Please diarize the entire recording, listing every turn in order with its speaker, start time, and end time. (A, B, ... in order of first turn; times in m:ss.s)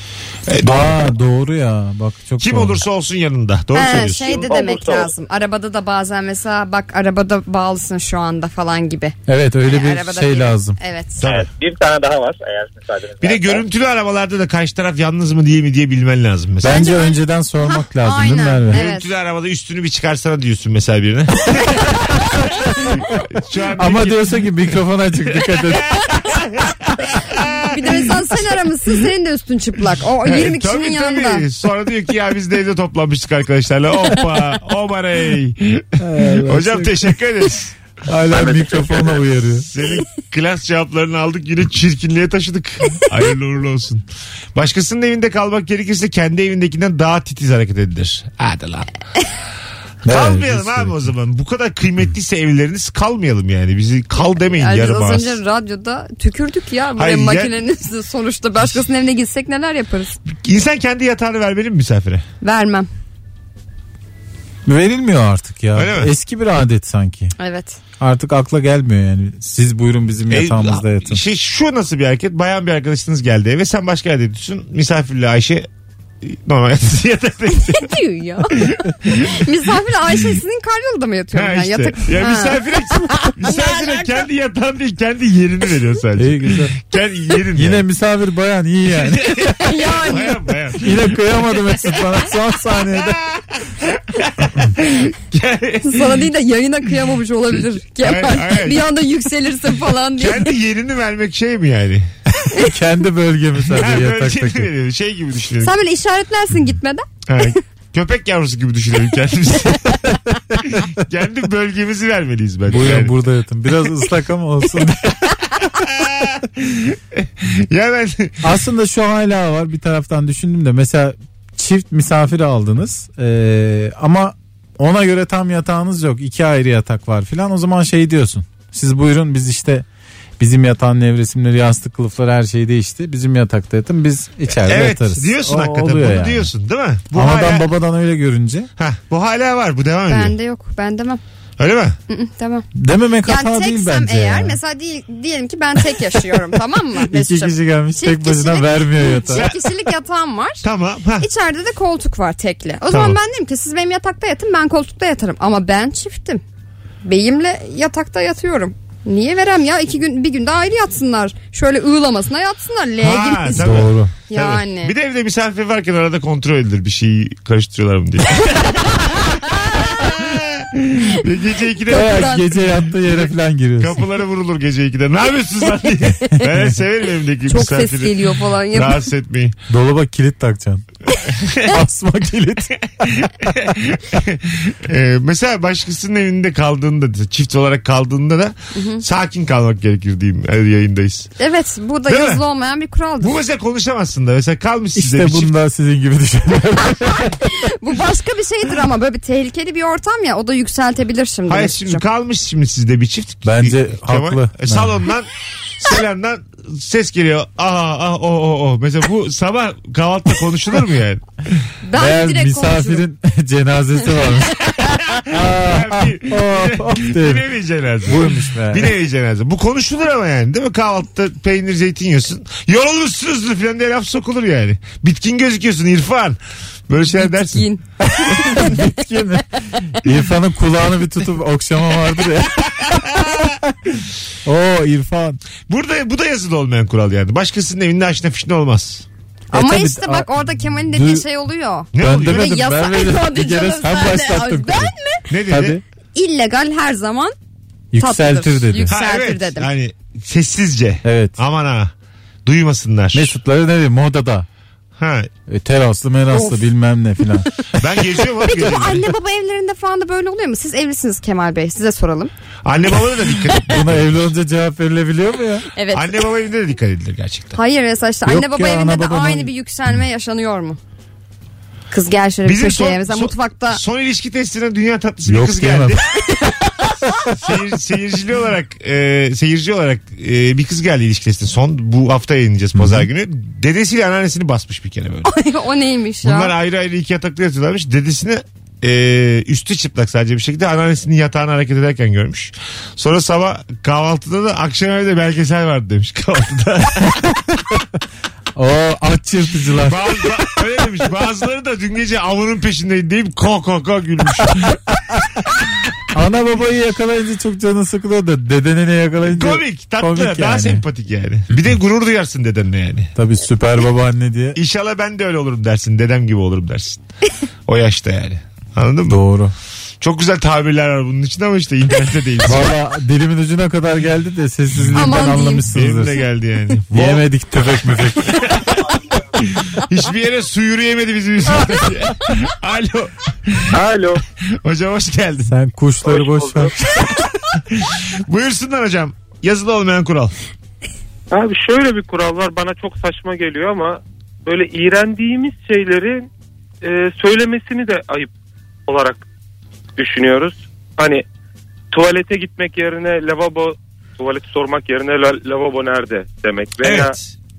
0:00.5-0:01.1 A
0:00.6-0:02.8 B
0:02.4-0:04.5 A
0:03.7-0:11.2 C
0:04.2-0:05.1 D
0:09.3-0:10.8 B
0:11.2-0:11.5 A
0:11.2-0:13.6 D
0:13.2-0:16.9 A
0:16.6-0:18.8 B
0:16.7-0:19.1 C
0:18.7-0:21.9 A
0:22.7-0:24.6 A
0:23.8-0:25.9 B
0:25.6-0:28.3 A
0:27.6-0:31.4 C
0:30.2-0:37.7 A
0:36.0-0:37.1 B
0:38.1-0:39.7 B
0:38.3-0:39.2 D
0:39.6-0:48.9 A
0:50.0-0:51.1 B
0:50.0-0:55.4 A
0:54.4-1:00.2 C
0:57.0-0:57.6 A
1:00.3-1:02.2 A
1:02.4-1:02.9 C
1:04.7-1:07.3 B
1:05.7-1:06.1 A
1:07.4-1:07.8 C
1:08.0-1:11.2 B
1:10.3-1:15.7 A
1:16.2-1:17.9 A
1:17.5-1:24.2 C
1:18.5-1:19.5 A
1:21.3-1:27.8 A
1:26.2-1:26.7 B
1:27.6-1:29.5 B
1:28.9-1:31.4 A
1:29.6-1:30.4 C
1:30.8-1:33.2 B
1:32.9-1:36.3 A
1:35.8-1:40.5 C
1:38.0-1:38.9 A
1:40.2-1:42.1 A
1:42.5-1:44.7 B
1:43.7-1:45.8 A
1:45.6-1:47.6 C
1:47.3-1:50.0 A
1:50.7-1:53.2 A
1:52.7-1:55.3 B
1:55.7-1:58.4 A
1:58.4-2:09.9 B
2:10.4-2:16.5 B
2:14.5-2:17.7 A
2:17.1-2:18.7 B
2:18.8-2:20.4 A
2:20.1-2:21.2 C
2:21.6-2:22.0 A
2:22.1-2:22.7 C
2:22.8-2:24.6 B
2:23.2-2:30.6 C
2:27.1-2:29.5 B
2:29.3-2:29.8 A
2:30.6-2:31.3 A
2:31.2-2:36.4 C
2:32.9-2:33.2 A
2:37.0-2:43.7 C
2:43.0-2:52.5 A
2:43.6-2:44.1 B
2:44.3-2:44.9 C
2:49.5-2:50.1 C
2:51.9-2:52.5 C
2:51.9-2:54.0 B
2:53.8-2:59.6 A
2:57.5-2:59.0 C
2:59.7-3:00.8 B
3:01.6-3:03.5 B
3:03.0-3:11.3 A
3:08.8-3:09.0 C
3:11.4-3:13.4 C
3:12.1-3:12.4 A
3:13.2-3:15.5 A
3:15.0-3:17.4 B
3:17.6-3:22.0 C
3:21.5-3:31.6 A
3:23.4-3:25.0 B
3:31.8-3:33.0 C
3:32.0-3:34.6 B
3:34.7-3:47.7 A
3:35.2-3:37.4 B
3:38.0-3:38.9 B
3:47.5-3:48.9 C
3:48.1-3:53.1 B
3:52.7-3:53.5 A
3:54.4-3:55.4 B
3:55.7-3:59.1 A
3:59.5-4:05.3 C
3:59.5-4:01.3 B
4:01.9-4:02.6 A
4:02.0-4:04.9 B
4:05.3-4:05.8 A
4:05.5-4:05.8 B
4:06.2-4:07.4 C
4:07.9-4:09.0 B
4:08.0-4:09.7 C
4:08.9-4:11.9 A
4:11.0-4:11.4 B
4:12.4-4:13.3 A
4:13.1-4:14.5 B
4:15.0-4:15.3 A
4:15.5-4:17.5 B
4:17.8-4:19.1 A
4:18.4-4:22.3 C
4:22.6-4:24.3 A
4:23.6-4:25.7 B
4:25.7-4:26.3 C
4:25.9-4:27.6 A
4:27.6-4:30.8 C
4:28.3-4:29.5 B
4:31.9-4:33.8 C
4:32.4-4:36.0 A
4:35.3-4:36.0 B
4:37.3-4:45.3 A
4:42.8-4:43.1 B
4:45.3-4:46.5 C
4:46.2-4:57.4 A
4:58.6-5:00.3 B
4:59.8-5:04.8 A
5:06.1-5:10.8 B
5:09.3-5:13.1 A
5:13.2-5:14.6 B
5:14.6-5:17.0 A
5:17.7-5:19.2 A
5:19.1-5:19.5 B
5:20.0-5:22.7 A
5:22.4-5:26.2 B
5:24.9-5:25.7 C
5:25.7-5:33.8 A
5:26.9-5:28.5 B
5:33.7-5:34.2 E
5:34.5-5:35.5 A
5:35.5-5:36.8 B
5:36.1-5:37.0 E
5:37.5-5:40.4 A
5:41.3-5:46.3 E
5:46.8-5:48.3 E
5:48.9-5:49.2 E
5:50.0-5:51.2 E
5:51.9-5:57.2 E
5:56.8-5:57.3 A